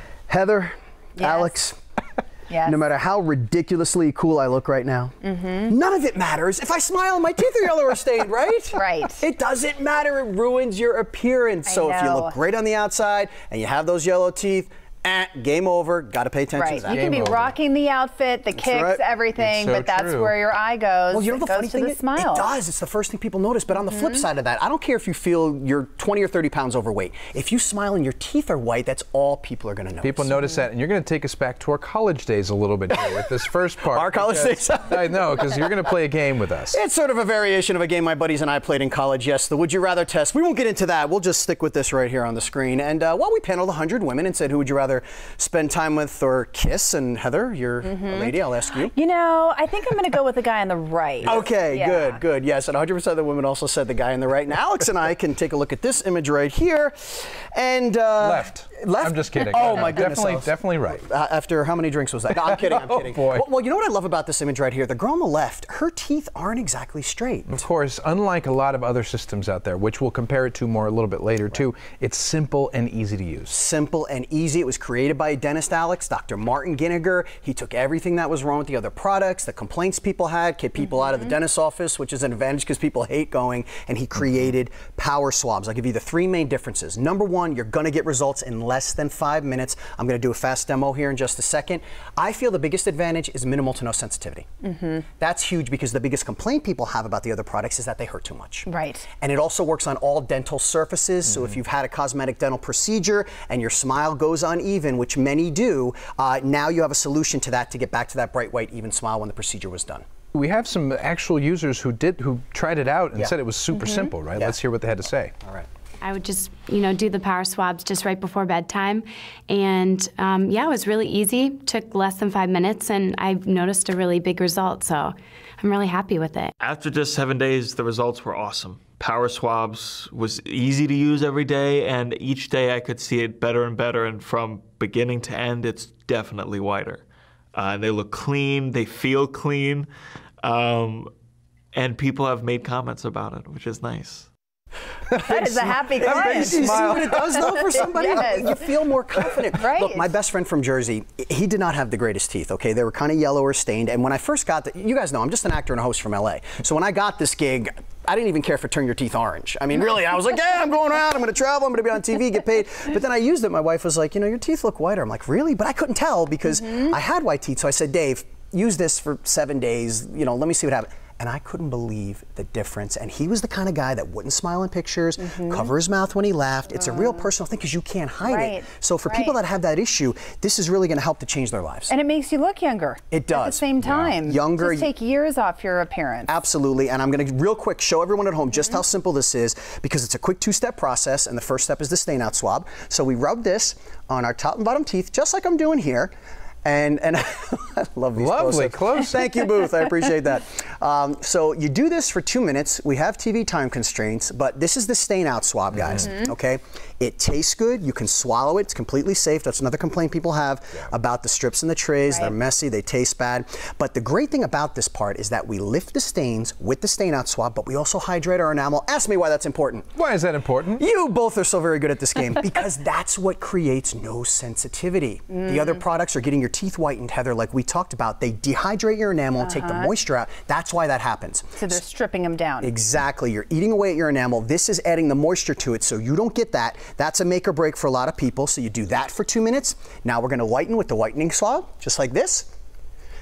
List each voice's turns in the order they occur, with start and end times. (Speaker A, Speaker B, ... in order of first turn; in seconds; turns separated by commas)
Speaker A: 0.3-1.8, Speaker B: 1.2-1.5, Speaker B: 2.5-2.8, Speaker A: 2.6-17.0, Speaker B: 5.2-5.7, Speaker B: 8.7-9.2, Speaker B: 11.7-12.3, Speaker B: 16.5-22.5, Speaker C: 16.9-17.5, Speaker A: 18.5-19.0, Speaker C: 19.4-20.3, Speaker A: 21.1-30.3, Speaker C: 30.0-36.8, Speaker A: 32.9-33.2, Speaker A: 33.9-35.1, Speaker A: 36.7-48.9, Speaker B: 47.9-48.3, Speaker B: 48.9-52.2, Speaker A: 51.2-67.7, Speaker C: 58.2-61.0, Speaker C: 62.4-63.4, Speaker C: 67.5-73.5, Speaker A: 73.5-94.5, Speaker B: 94.7-95.0, Speaker A: 95.2-98.7, Speaker B: 98.7-99.0, Speaker A: 99.2-110.0, Speaker C: 110.3-115.3, Speaker D: 116.0-126.5, Speaker E: 126.6-139.9, Speaker E: 140.4-141.1, Speaker E: 141.7-144.3, Speaker B: 145.2-148.6, Speaker A: 145.3-181.9, Speaker C: 146.0-147.8, Speaker B: 149.5-150.1, Speaker B: 175.2-175.7, Speaker B: 178.2-179.4, Speaker B: 181.9-186.3, Speaker A: 183.1-184.9, Speaker A: 186.3-196.1, Speaker A: 196.6-219.9, Speaker C: 198.2-199.2, Speaker C: 219.9-220.8, Speaker A: 220.8-231.8, Speaker B: 229.4-229.9, Speaker B: 231.6-232.7, Speaker A: 232.6-242.5